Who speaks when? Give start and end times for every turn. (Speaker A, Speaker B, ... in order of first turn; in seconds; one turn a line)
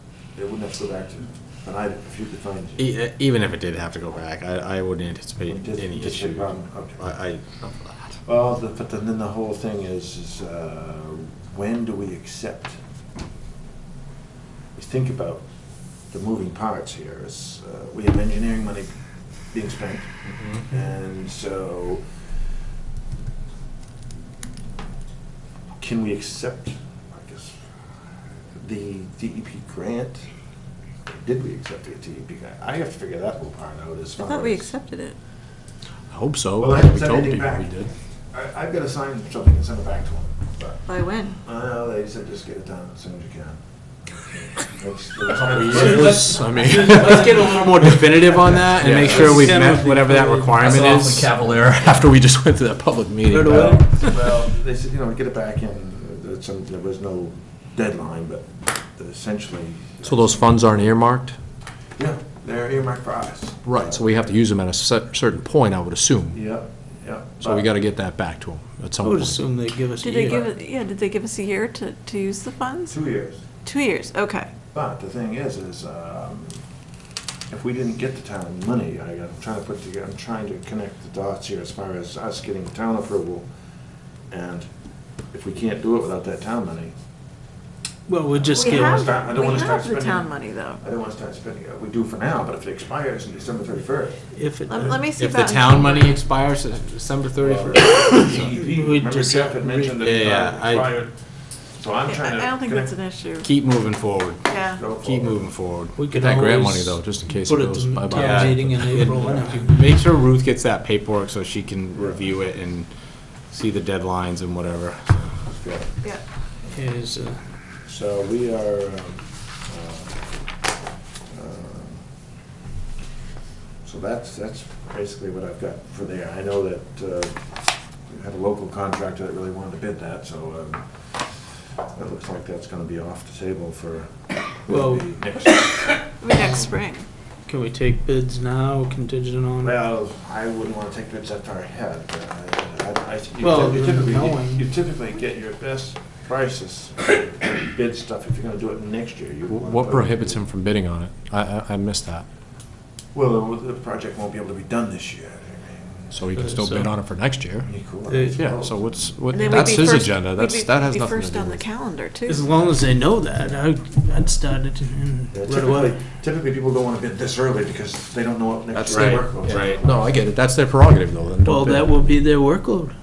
Speaker A: 0.4-2.9
Speaker B: 2.8-8.2
Speaker A: 5.5-7.1
Speaker A: 8.2-12.8
Speaker A: 14.8-15.4
Speaker A: 16.1-18.9
Speaker A: 19.5-20.1
Speaker A: 20.6-22.0
Speaker A: 25.8-27.6
Speaker A: 28.6-30.3
Speaker A: 31.1-34.7
Speaker C: 34.2-35.2
Speaker D: 36.1-37.9
Speaker A: 36.6-40.9
Speaker C: 40.9-41.4
Speaker A: 41.4-46.5
Speaker D: 45.3-49.7
Speaker E: 45.6-50.6
Speaker B: 47.2-53.0
Speaker D: 50.6-53.8
Speaker E: 53.3-53.9
Speaker A: 53.4-60.5
Speaker D: 60.0-61.4
Speaker A: 62.0-64.2
Speaker D: 63.6-66.4
Speaker A: 66.3-67.7
Speaker D: 67.4-69.4
Speaker E: 69.0-70.4
Speaker C: 70.0-73.0
Speaker D: 70.0-70.4
Speaker A: 72.9-73.4
Speaker C: 73.6-74.5
Speaker A: 74.7-76.6
Speaker A: 77.5-83.5
Speaker A: 84.3-84.7
Speaker A: 85.3-86.9
Speaker E: 88.1-89.2
Speaker A: 88.3-94.3
Speaker C: 88.5-90.8
Speaker E: 94.3-95.0
Speaker C: 94.7-96.1
Speaker B: 95.2-98.5
Speaker A: 97.4-101.1
Speaker E: 98.7-99.9
Speaker B: 100.0-100.9
Speaker A: 101.7-103.0
Speaker C: 102.0-103.5
Speaker B: 103.4-106.0
Speaker C: 104.5-104.8
Speaker A: 104.7-105.6
Speaker E: 106.0-109.8
Speaker D: 106.0-109.1
Speaker B: 108.1-112.9
Speaker B: 113.5-115.5
Speaker A: 115.5-115.9
Speaker E: 116.7-117.4
Speaker A: 117.9-120.2
Speaker A: 121.3-122.0
Speaker A: 123.8-127.4
Speaker A: 128.1-135.9
Speaker E: 134.7-135.8
Speaker C: 136.2-137.1
Speaker E: 136.3-136.7
Speaker E: 137.5-139.8
Speaker A: 139.6-150.4
Speaker E: 143.4-144.7
Speaker D: 149.5-152.2
Speaker A: 153.1-156.2
Speaker D: 156.1-157.8
Speaker E: 156.4-156.9
Speaker A: 157.6-159.1
Speaker E: 158.1-158.4
Speaker D: 158.4-161.7
Speaker C: 159.3-162.4
Speaker E: 162.3-165.9
Speaker A: 165.3-170.1
Speaker D: 168.7-172.1
Speaker B: 168.9-169.8
Speaker E: 171.4-172.9